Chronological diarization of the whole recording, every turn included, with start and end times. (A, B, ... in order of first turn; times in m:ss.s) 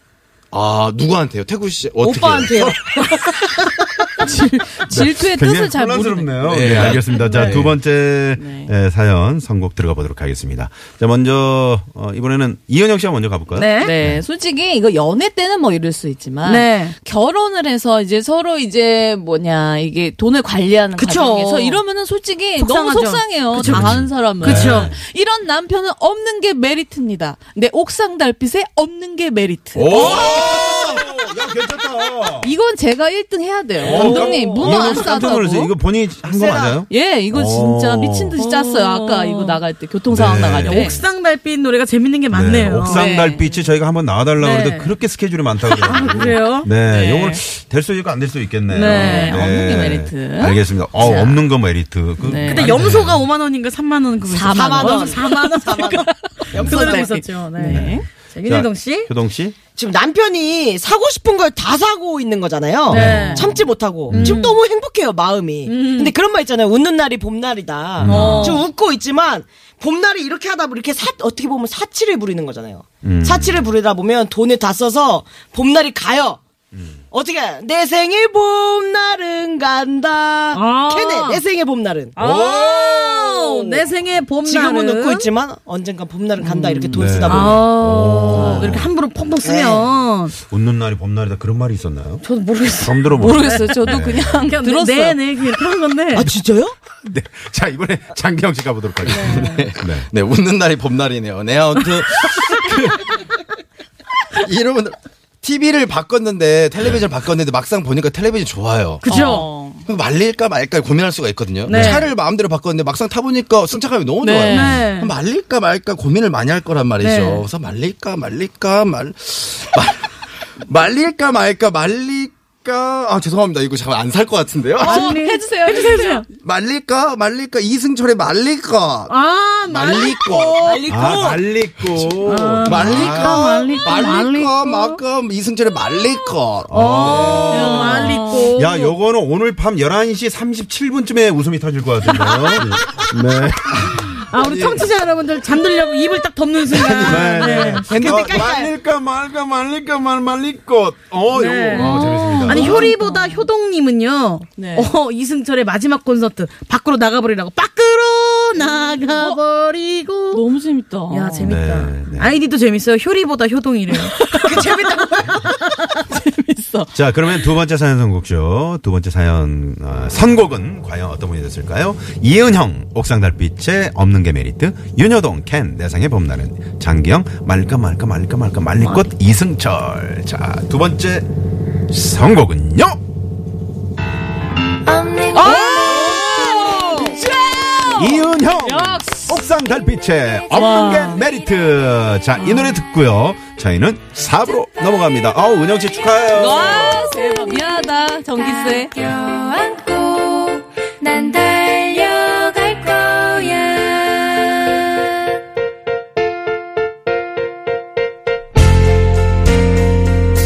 0:00.5-0:03.2 A
0:02.0-0:03.0 B
0:04.2-0:07.0 C
0:04.9-0:14.2 D
0:06.4-0:07.7 A
0:07.2-0:07.6 E
0:08.4-0:08.7 C
0:13.5-0:13.9 E
0:13.8-0:30.2 C
0:16.4-0:16.9 E
0:21.0-0:21.8 E
0:22.6-0:24.9 E
0:23.6-0:25.0 D
0:29.7-0:32.5 D
0:29.9-0:31.0 A
0:29.9-0:30.3 E
0:32.4-0:35.7 C
0:33.8-0:38.3 D
0:33.9-0:34.9 E
0:36.2-0:36.8 B
0:36.9-0:41.0 C
0:38.4-0:39.6 E
0:40.1-0:41.0 D
0:40.6-0:43.1 E
0:42.3-0:53.2 D
0:42.8-0:43.6 C
0:44.4-0:44.9 E
0:45.7-0:46.7 E
0:46.8-0:47.4 C
0:48.7-0:49.4 E
0:48.8-0:51.1 C
0:51.0-0:51.4 E
0:52.2-0:52.8 C
0:52.4-0:59.1 E
0:54.3-0:58.0 C
0:54.4-0:57.2 B
0:57.6-0:59.6 D
0:59.7-1:16.4 B
1:02.9-1:03.6 E
1:02.9-1:03.5 D
1:03.0-1:03.4 C
1:04.1-1:04.4 D
1:04.1-1:04.5 E
1:05.7-1:06.1 E
1:08.0-1:08.5 D
1:08.1-1:08.6 E
1:08.1-1:08.6 C
1:13.0-1:13.7 D
1:17.1-1:22.1 B
1:20.5-1:21.4 E
1:22.2-1:25.3 E
1:22.2-1:22.9 D
1:23.4-1:23.8 B
1:24.4-1:27.7 B
1:26.4-1:27.0 C
1:26.9-1:28.9 D
1:27.3-1:30.3 E
1:28.3-1:28.8 C
1:29.4-1:29.8 B
1:30.5-1:32.2 D
1:32.2-1:36.3 E
1:32.8-1:34.5 D
1:33.2-1:35.2 C
1:36.1-1:36.7 B
1:37.0-1:40.1 D
1:39.1-1:43.0 A
1:39.1-1:39.7 E
1:44.4-2:05.1 A
1:49.0-1:49.5 E
1:49.1-1:49.9 C
1:51.6-1:52.1 E
1:54.2-1:54.8 C
1:54.5-1:55.1 E
1:57.0-1:57.4 E
2:04.8-2:06.2 C
2:04.8-2:06.2 E
2:06.4-2:09.1 A
2:09.1-2:10.8 E
2:09.7-2:10.6 A
2:10.5-2:11.5 B
2:10.9-2:13.8 D
2:11.9-2:17.5 A
2:12.2-2:15.0 E
2:16.7-2:24.2 D
2:16.7-2:18.9 E
2:17.4-2:18.5 C
2:24.3-2:27.8 E
2:24.4-2:24.8 A
2:26.7-2:32.9 D
2:27.1-2:28.4 A
2:27.9-2:28.7 B
2:31.3-2:40.4 E
2:31.7-2:33.5 C
2:34.6-2:35.0 C
2:38.6-2:39.4 C
2:40.3-2:41.6 C
2:41.1-2:45.8 E
2:41.4-2:42.3 D
2:44.2-2:44.7 C
2:46.0-2:46.9 C
2:46.9-3:01.2 D
3:01.9-3:03.0 D
3:04.8-3:07.2 F
3:05.3-3:08.2 C
3:05.5-3:06.2 E
3:08.0-3:17.0 D
3:10.5-3:11.2 C
3:12.4-3:12.7 C
3:16.3-3:18.9 C
3:16.8-3:25.0 F